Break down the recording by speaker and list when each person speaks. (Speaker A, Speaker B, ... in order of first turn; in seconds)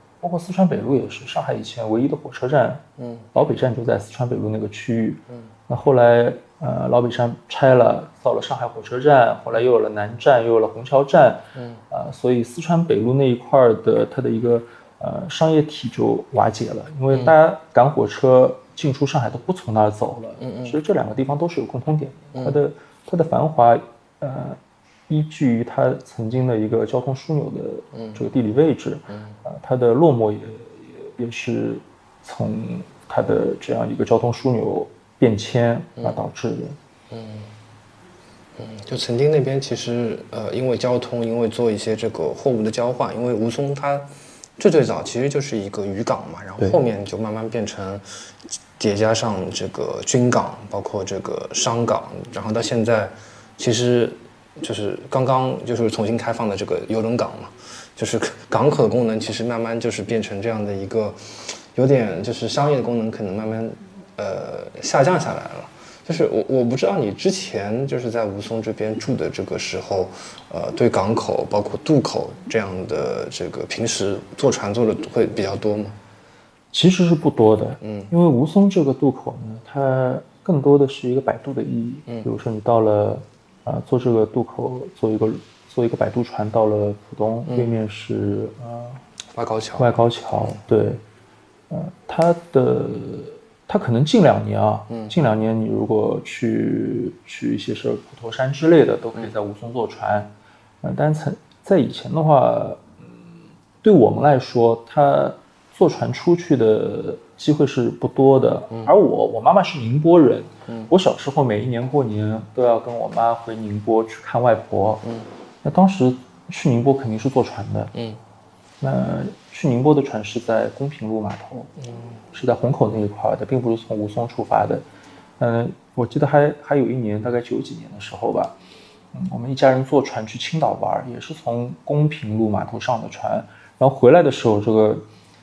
Speaker A: 0.2-36.8, 76.7-89.0, 89.8-91.0, 91.7-103.3, 103.8-115.1, 115.6-117.9, 118.8-121.7, 122.3-124.9, 125.4-128.6, 129.1-135.1
Speaker B: 3.0-3.3, 11.6-11.8, 20.4-20.8, 27.9-28.2, 29.1-29.4, 37.1-37.5, 38.6-48.0, 48.8-76.0, 77.8-78.1, 87.5-87.8, 89.3-89.9, 94.9-95.1, 121.8-122.2